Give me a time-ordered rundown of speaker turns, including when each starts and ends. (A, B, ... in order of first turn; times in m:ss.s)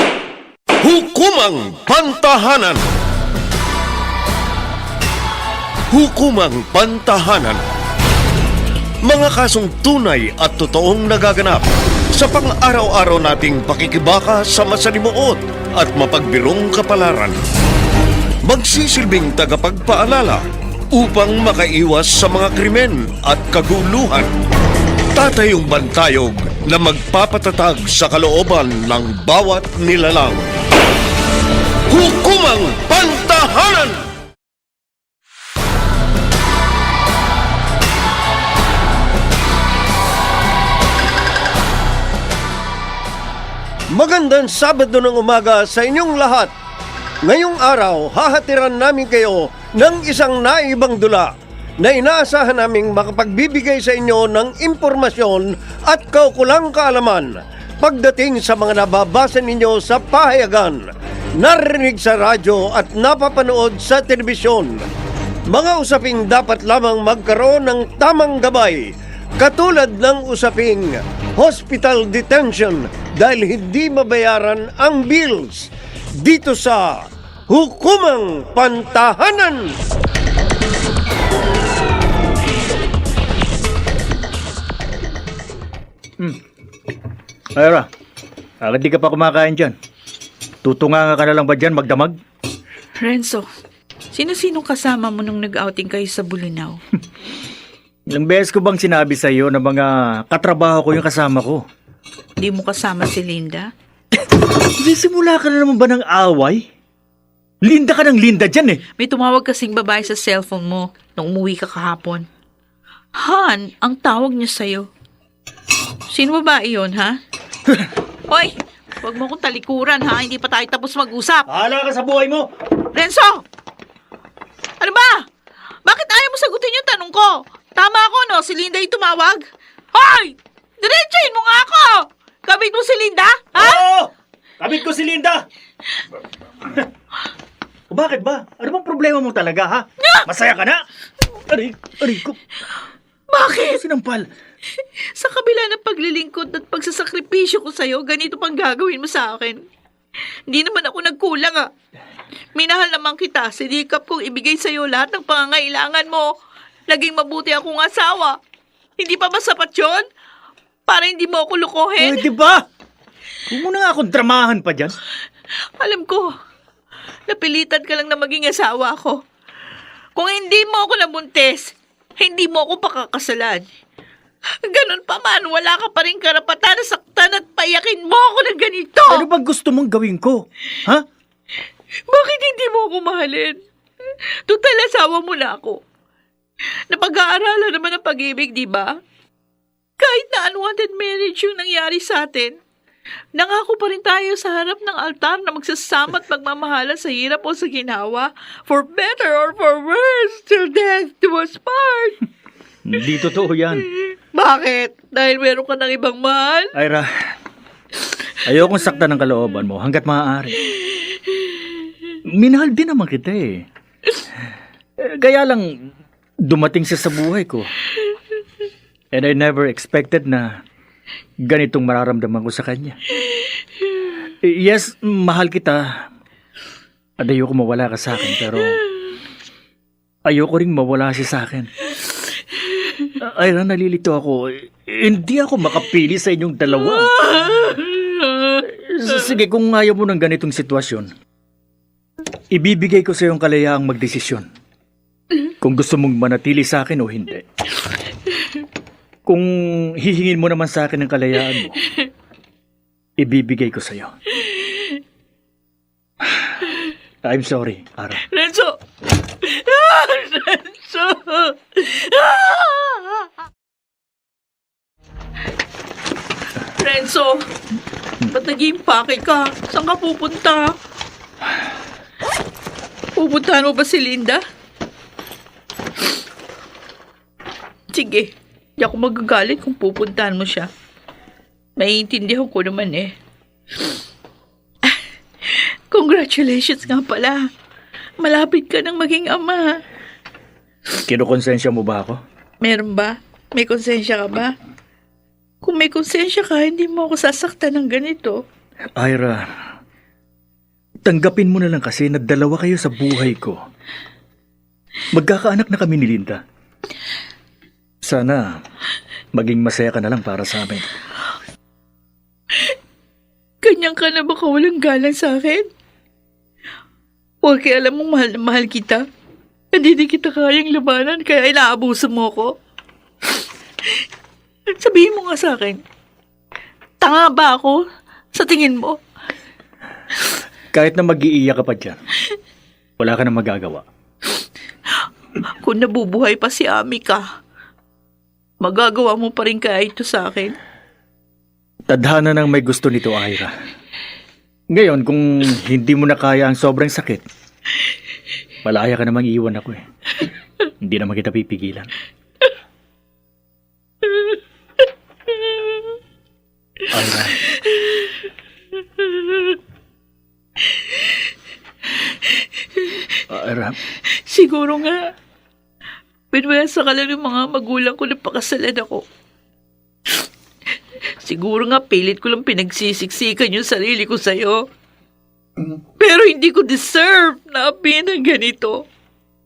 0:00.8-0:02.8 A
0:05.9-0:07.6 A
0:09.0-0:11.6 A
0:12.1-0:17.4 A
0:18.4-0:24.3 A
0:25.1-0:30.4 A
0:31.9-0:34.0 A
0:43.9-0:46.5 A
0:47.2-1:00.9 A
1:01.4-1:04.8 A
1:05.5-1:19.7 A
1:27.6-1:27.9 B
1:28.6-1:29.7 B
1:30.6-1:32.2 B
1:33.0-1:33.4 C
1:34.1-1:36.8 C
1:38.1-1:41.6 B
1:42.4-1:43.7 C
1:44.8-1:46.6 B
1:47.6-1:48.8 B
1:49.0-1:52.3 C
1:53.2-1:54.9 C
1:56.1-1:57.2 C
1:58.3-2:01.5 C
2:01.5-2:02.5 B
2:02.9-2:03.4 C
2:04.8-2:05.2 C
2:05.8-2:09.4 C
2:09.9-2:13.8 C
2:13.5-2:15.4 B
2:17.9-2:20.8 B
2:21.5-2:22.6 B
2:23.3-2:23.8 C
2:23.5-2:24.3 B
2:25.1-2:29.6 C
2:30.5-2:31.7 C
2:32.5-2:36.3 C
2:36.9-2:38.4 C
2:39.0-2:40.0 C
2:40.9-2:42.2 C
2:42.0-2:42.6 B
2:43.5-2:44.9 B
2:45.8-2:46.3 C
2:47.3-2:49.2 C
2:50.2-2:53.6 C
2:54.6-2:59.2 C
2:59.1-3:01.0 B
3:02.1-3:03.6 C
3:04.5-3:05.8 C
3:06.9-3:08.9 C
3:10.0-3:12.6 C
3:13.4-3:22.2 C
3:22.8-3:23.8 B
3:24.1-3:26.7 C
3:26.7-3:27.1 B
3:28.4-3:30.7 B
3:32.3-3:33.6 B
3:35.0-3:35.7 B
3:36.4-3:37.7 B
3:39.1-3:40.6 B
3:41.4-3:43.0 B
3:44.4-3:46.0 B
3:47.2-3:48.8 B
3:50.2-3:51.7 B
3:53.2-3:57.8 B
3:57.2-3:58.6 C
3:58.6-4:01.1 B
4:02.5-4:04.4 B
4:05.5-4:07.4 B
4:09.2-4:11.8 B
4:13.2-4:14.2 B
4:17.2-4:18.2 B
4:18.2-4:18.8 C
4:19.4-4:23.3 C
4:26.6-4:27.5 C
4:28.3-4:30.7 C
4:33.2-4:34.4 C
4:37.9-4:40.7 C
4:41.8-4:43.1 C
4:44.8-4:47.5 C
4:48.2-4:49.8 C
4:51.0-4:52.2 B
4:52.6-4:54.5 C
4:55.6-4:58.4 C
4:59.0-4:59.4 B
5:01.0-5:03.6 B
5:05.1-5:06.4 B
5:08.0-5:08.4 B
5:09.3-5:10.9 B
5:13.6-5:15.6 C
5:17.4-5:19.0 C
5:19.7-5:22.5 C
5:24.7-5:25.8 C
5:27.0-5:27.8 C
5:28.3-5:29.0 C
5:30.7-5:32.0 B
5:33.0-5:33.8 B
5:35.5-5:37.2 C
5:38.6-5:40.6 C
5:41.9-5:43.5 B
5:44.7-5:47.2 B
5:48.6-5:49.8 B
5:50.8-5:51.9 B
5:56.9-5:57.4 B
5:57.6-5:58.1 C
5:59.0-5:59.4 C
6:00.7-6:01.2 C
6:02.0-6:03.2 C
6:03.3-6:03.8 B
6:04.2-6:05.0 C
6:06.3-6:09.0 C
6:11.2-6:14.6 C
6:16.0-6:18.8 C